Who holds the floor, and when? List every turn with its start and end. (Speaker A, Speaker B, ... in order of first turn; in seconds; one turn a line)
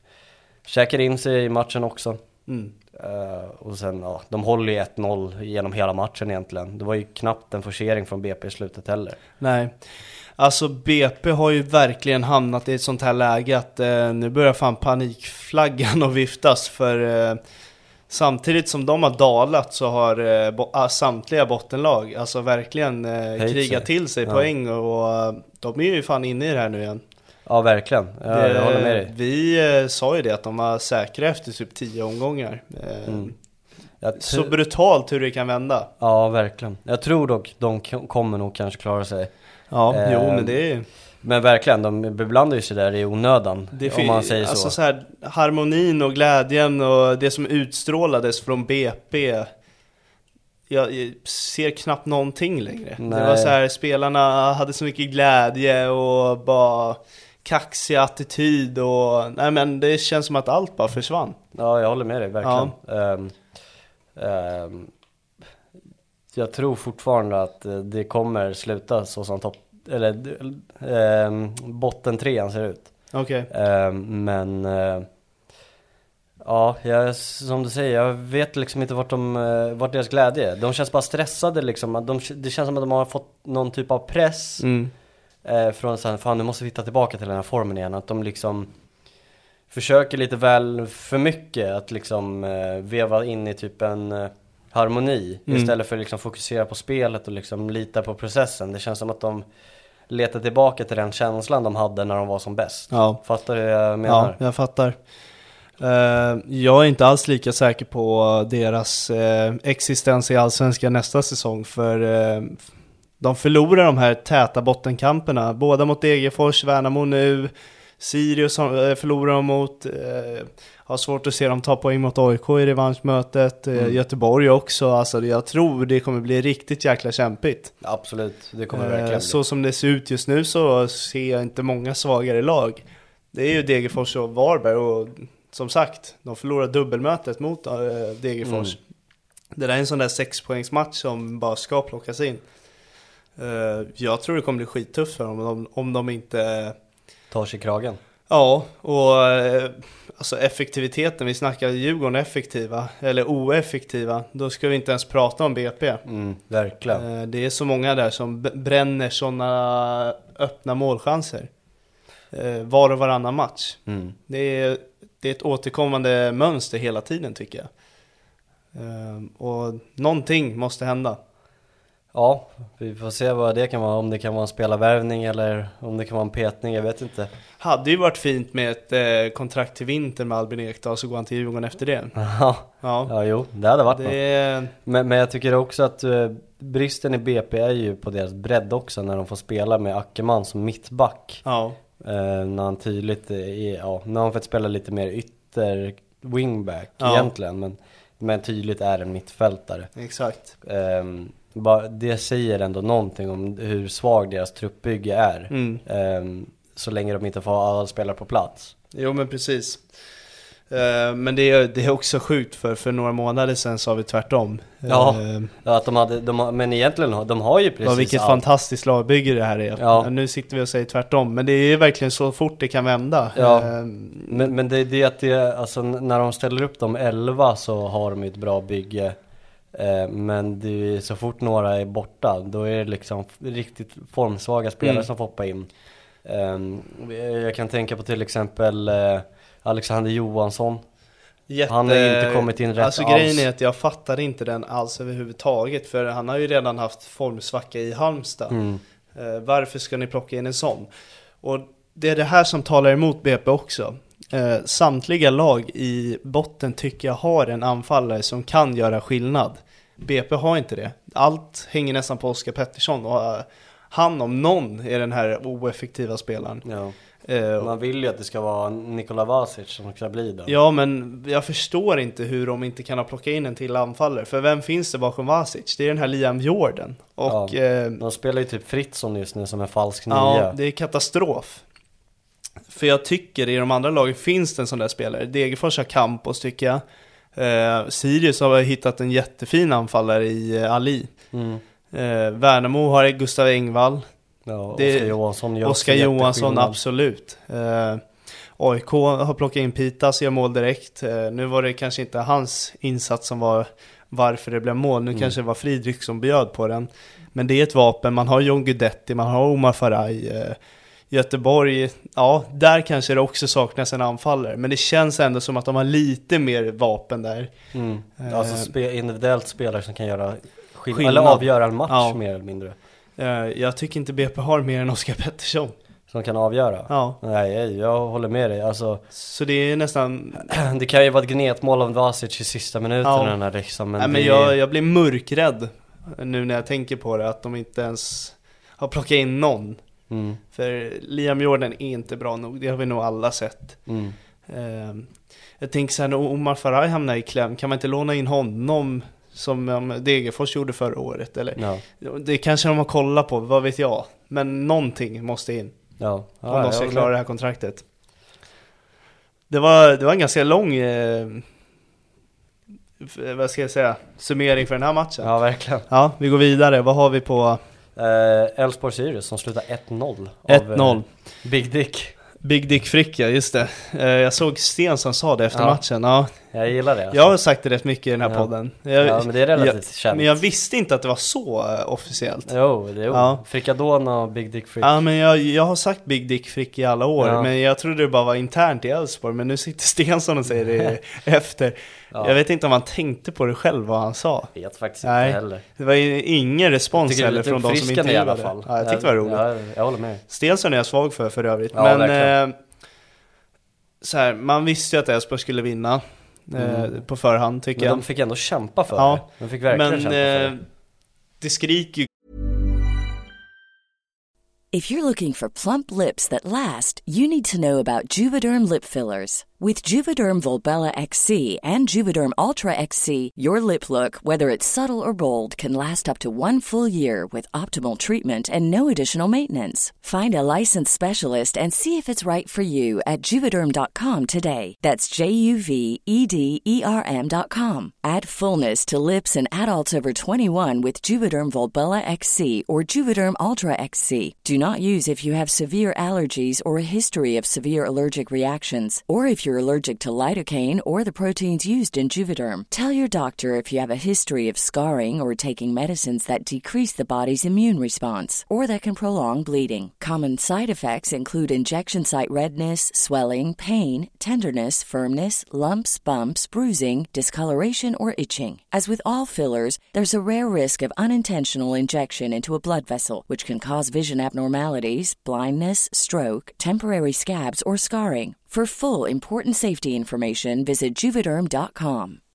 Speaker A: 0.6-2.2
Speaker B: 2.5-2.7
Speaker A: 2.9-9.2
Speaker B: 9.4-17.4
Speaker B: 18.1-27.0
Speaker A: 23.4-24.5
Speaker A: 27.5-29.1
Speaker B: 28.3-33.4
Speaker A: 33.0-33.3
Speaker A: 34.0-34.5
Speaker B: 34.1-35.9
Speaker A: 36.0-40.6
Speaker B: 39.7-40.9
Speaker A: 41.2-44.8
Speaker B: 43.7-49.5
Speaker B: 50.7-61.4
Speaker A: 53.0-53.5
Speaker A: 61.5-63.5
Speaker B: 62.4-62.7
Speaker A: 64.1-64.9
Speaker A: 66.3-75.1
Speaker B: 73.1-73.5
Speaker A: 76.4-84.7
Speaker B: 84.6-84.9
Speaker A: 85.4-88.7
Speaker A: 89.7-99.5
Speaker B: 95.5-95.7
Speaker A: 100.1-104.4
Speaker B: 102.9-103.2
Speaker B: 104.0-105.0
Speaker B: 105.8-112.7
Speaker B: 113.2-127.8
Speaker A: 127.8-129.4
Speaker B: 128.7-138.8
Speaker A: 138.4-138.8
Speaker B: 139.6-142.4
Speaker B: 143.4-146.8
Speaker A: 147.3-148.0
Speaker B: 148.3-156.1
Speaker A: 156.1-157.1
Speaker B: 156.9-161.5
Speaker B: 162.3-167.7
Speaker A: 163.9-164.2
Speaker B: 168.7-171.2
Speaker A: 172.1-177.3
Speaker B: 177.6-182.1
Speaker A: 182.1-184.2
Speaker B: 182.8-183.1
Speaker B: 183.9-184.7
Speaker A: 184.7-191.4
Speaker B: 191.4-191.8
Speaker A: 192.0-199.9
Speaker B: 197.0-197.3
Speaker B: 199.9-200.5
Speaker A: 200.6-208.8
Speaker B: 205.5-205.8
Speaker B: 208.9-209.9
Speaker B: 210.7-215.5
Speaker A: 214.9-218.4
Speaker B: 217.8-224.5
Speaker A: 219.8-220.1
Speaker A: 223.4-229.2
Speaker A: 229.7-240.8
Speaker B: 234.8-235.1
Speaker B: 241.5-248.6
Speaker A: 241.6-243.5
Speaker A: 248.5-248.8
Speaker B: 249.1-250.9
Speaker B: 251.4-266.6
Speaker A: 266.6-266.9
Speaker B: 267.2-267.7
Speaker A: 267.6-270.6
Speaker B: 270.5-278.0
Speaker A: 277.2-280.6
Speaker B: 280.1-281.6
Speaker B: 282.7-286.8
Speaker B: 287.4-291.1
Speaker A: 291.3-291.6
Speaker B: 291.9-294.1
Speaker A: 294.5-296.8
Speaker B: 294.7-310.6
Speaker B: 311.1-317.5
Speaker A: 317.7-322.8
Speaker B: 318.2-318.7
Speaker B: 320.9-322.2
Speaker B: 323.2-325.7
Speaker A: 326.1-329.1
Speaker B: 326.9-327.2
Speaker B: 329.1-330.6
Speaker A: 330.5-334.5
Speaker B: 333.0-333.4
Speaker B: 334.0-339.8
Speaker A: 340.1-340.4
Speaker B: 340.5-343.9
Speaker A: 343.9-344.1
Speaker B: 344.5-357.9
Speaker A: 351.6-351.8
Speaker A: 356.0-357.1
Speaker B: 359.5-361.4
Speaker B: 363.0-365.3
Speaker A: 365.2-365.9
Speaker B: 365.9-367.6
Speaker A: 368.0-372.2
Speaker B: 370.5-371.1
Speaker B: 372.4-376.5
Speaker A: 375.5-375.8
Speaker A: 376.4-377.4
Speaker B: 377.1-382.6
Speaker A: 378.2-380.4
Speaker A: 382.5-385.0
Speaker B: 383.1-383.4
Speaker B: 384.8-399.4
Speaker A: 387.2-387.5
Speaker A: 392.1-392.4
Speaker A: 394.5-395.6
Speaker A: 396.9-400.2
Speaker B: 400.3-402.6
Speaker A: 401.7-402.4
Speaker B: 404.0-408.0
Speaker A: 406.6-407.0
Speaker A: 407.8-410.6
Speaker B: 408.9-410.6
Speaker B: 411.4-412.1
Speaker C: 414.7-482.2